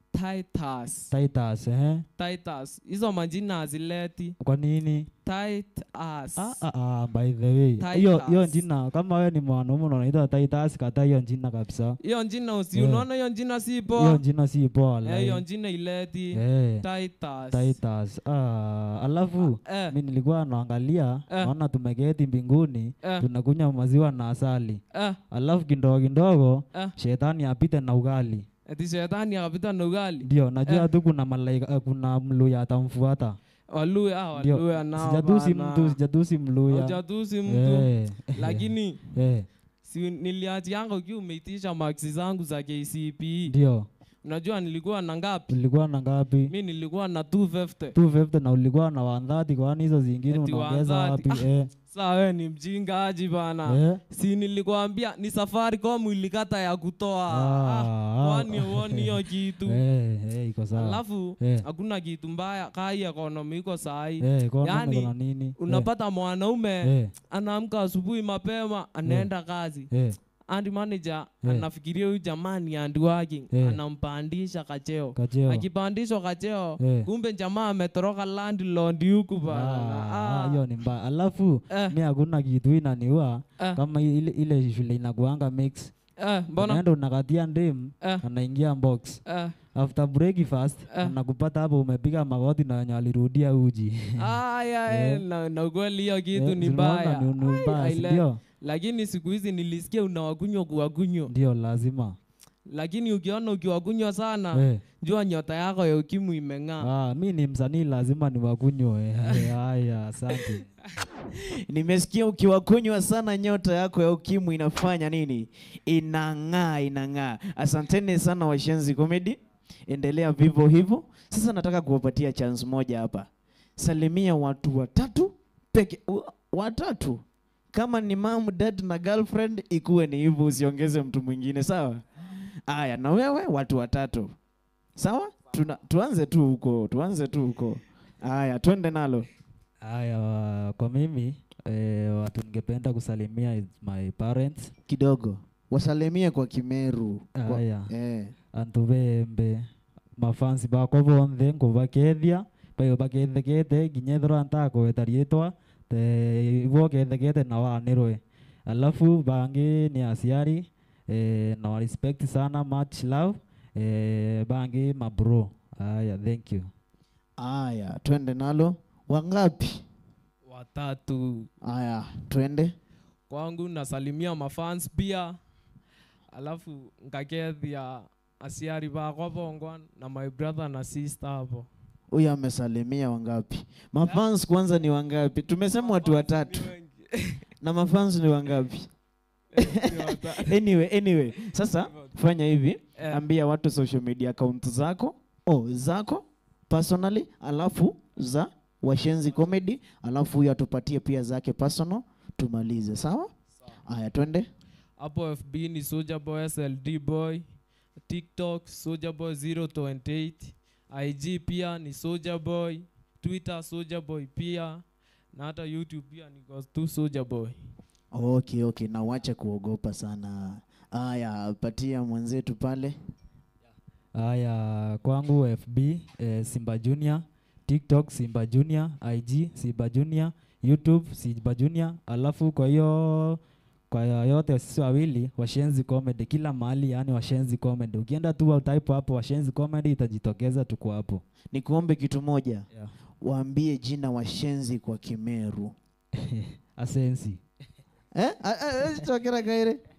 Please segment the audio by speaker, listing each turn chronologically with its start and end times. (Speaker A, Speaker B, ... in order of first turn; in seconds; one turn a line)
Speaker A: 0.1-1.1
Speaker B: 1.1-2.0
Speaker A: 2.2-4.3
Speaker B: 4.4-5.1
Speaker A: 5.2-6.6
Speaker B: 6.4-12.0
Speaker A: 7.8-8.6
Speaker A: 12.0-14.2
Speaker B: 12.8-13.1
Speaker B: 13.9-15.4
Speaker A: 15.1-17.8
Speaker B: 16.3-16.9
Speaker B: 17.5-28.5
Speaker A: 19.4-19.9
Speaker A: 24.9-25.2
Speaker A: 28.7-30.9
Speaker B: 30.2-33.4
Speaker A: 33.7-36.0
Speaker B: 34.4-39.5
Speaker A: 36.7-39.1
Speaker A: 39.9-43.5
Speaker B: 43.5-43.9
Speaker A: 44.2-45.6
Speaker B: 45.5-46.5
Speaker A: 46.5-48.0
Speaker B: 47.9-51.7
Speaker A: 50.3-59.8
Speaker B: 53.7-54.0
Speaker B: 57.3-61.6
Speaker A: 60.7-69.9
Speaker B: 64.2-65.9
Speaker B: 66.8-67.1
Speaker B: 69.9-70.2
Speaker A: 70.5-80.6
Speaker B: 73.5-73.8
Speaker B: 75.2-75.7
Speaker B: 76.8-77.1
Speaker B: 79.5-85.9
Speaker A: 86.2-86.8
Speaker B: 86.6-89.2
Speaker A: 89.3-89.6
Speaker B: 89.8-94.4
Speaker A: 94.2-101.3
Speaker B: 94.9-95.2
Speaker B: 96.3-98.4
Speaker B: 101.3-102.2
Speaker A: 102.7-106.9
Speaker B: 104.5-104.8
Speaker B: 106.8-110.7
Speaker C: 111.3-134.3
Speaker C: 135.0-139.3
Speaker B: 139.8-144.7
Speaker C: 144.9-148.3
Speaker B: 147.4-147.9
Speaker B: 148.5-149.7
Speaker B: 150.2-166.7
Speaker C: 167.4-169.8
Speaker A: 170.5-171.5
Speaker C: 171.6-172.8
Speaker A: 173.3-175.4
Speaker A: 176.3-181.7
Speaker C: 182.1-186.7
Speaker A: 185.8-187.5
Speaker C: 187.6-188.9
Speaker A: 189.5-190.6
Speaker C: 189.6-203.3
Speaker A: 193.0-193.2
Speaker C: 203.9-204.5
Speaker A: 205.0-207.4
Speaker A: 208.1-214.8
Speaker A: 215.3-217.6
Speaker C: 218.1-223.0
Speaker B: 224.2-233.4
Speaker B: 233.9-241.2
Speaker C: 241.5-242.7
Speaker C: 243.2-245.7
Speaker B: 246.2-247.4
Speaker C: 248.2-249.8